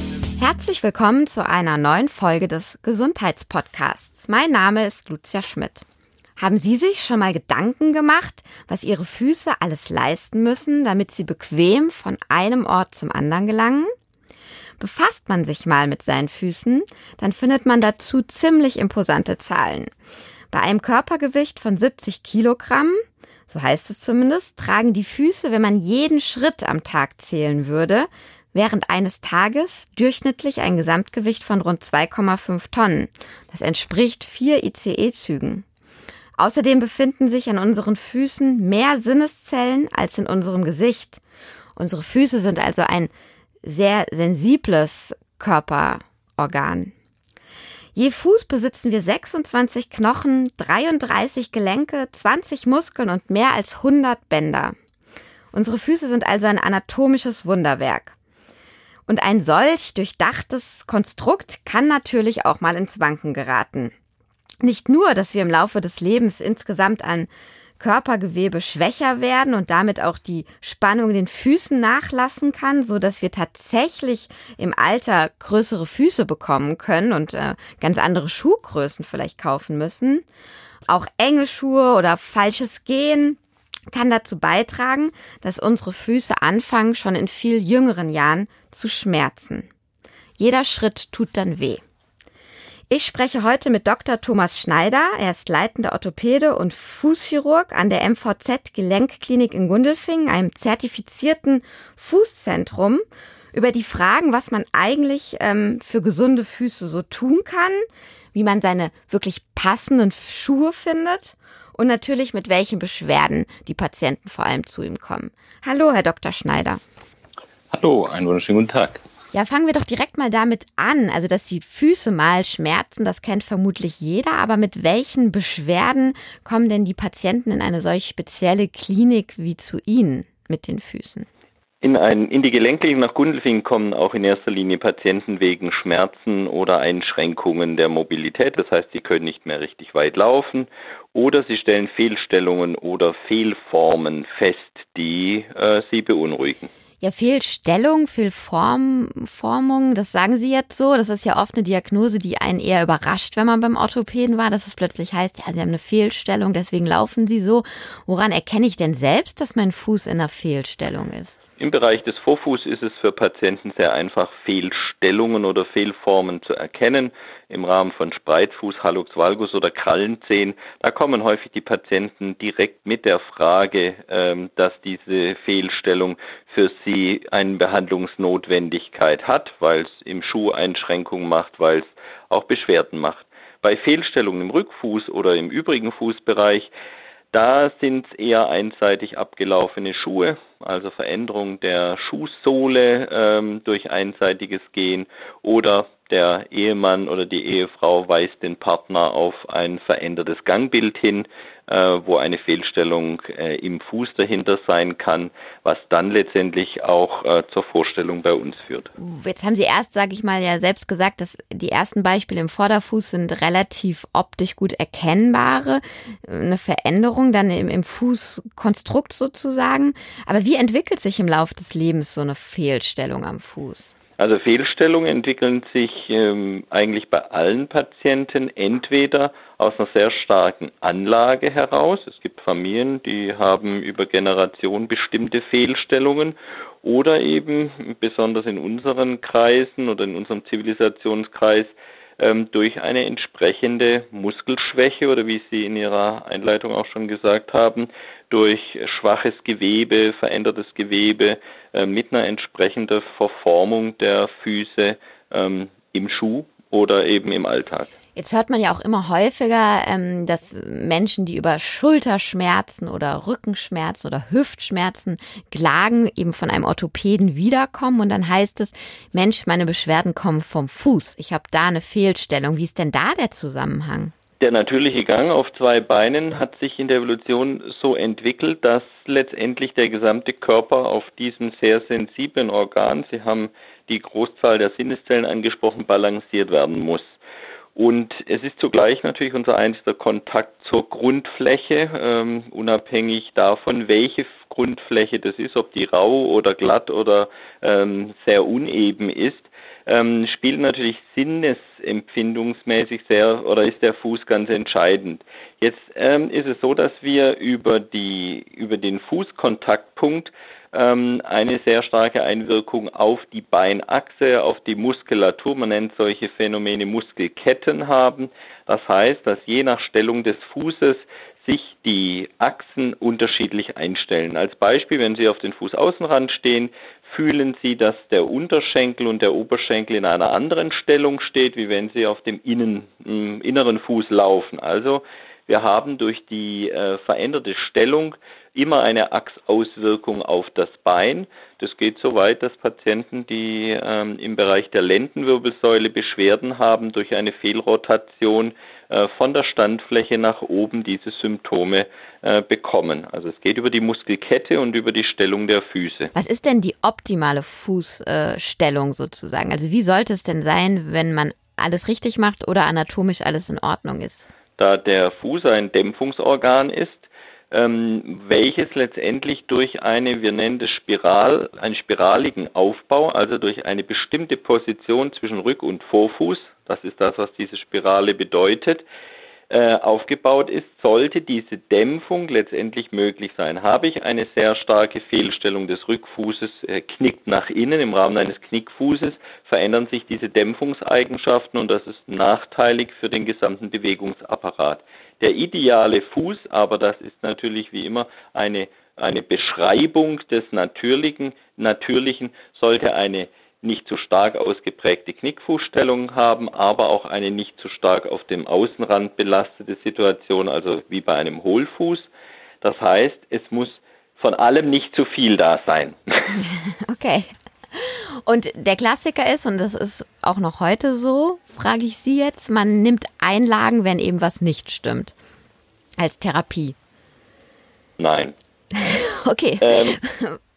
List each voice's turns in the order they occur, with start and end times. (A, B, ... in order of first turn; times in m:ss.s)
0:00.4-0:05.8 A
0:06.4-0:13.9 A
0:14.8-0:19.9 A
0:20.5-0:35.6 A
0:36.4-0:41.2 A
0:41.8-0:43.1 A
0:43.6-0:46.9 A
0:47.9-0:54.7 A
0:55.5-0:58.2 A
0:59.1-1:03.9 A
1:04.6-1:20.2 A
1:20.9-1:23.4 A
1:23.9-1:29.7 A
1:30.4-1:31.8 A
1:32.9-1:56.8 A
1:57.7-1:59.0 B
1:59.3-2:11.3 A
2:11.8-2:26.7 B
2:27.0-2:41.4 A
2:41.6-3:06.7 B
3:07.3-3:28.9 B
3:29.0-3:43.9 A
3:44.2-4:17.9 B
4:18.1-4:34.1 A
4:34.4-4:47.2 B
4:47.8-5:56.1 B
5:56.1-6:04.3 A
6:04.6-6:18.8 B
6:19.5-6:52.1 B
6:52.6-6:56.3 B
6:56.3-7:05.1 A
7:06.0-7:06.8 A
7:08.0-7:08.3 B
7:08.7-7:10.4 A
7:09.6-7:10.0 B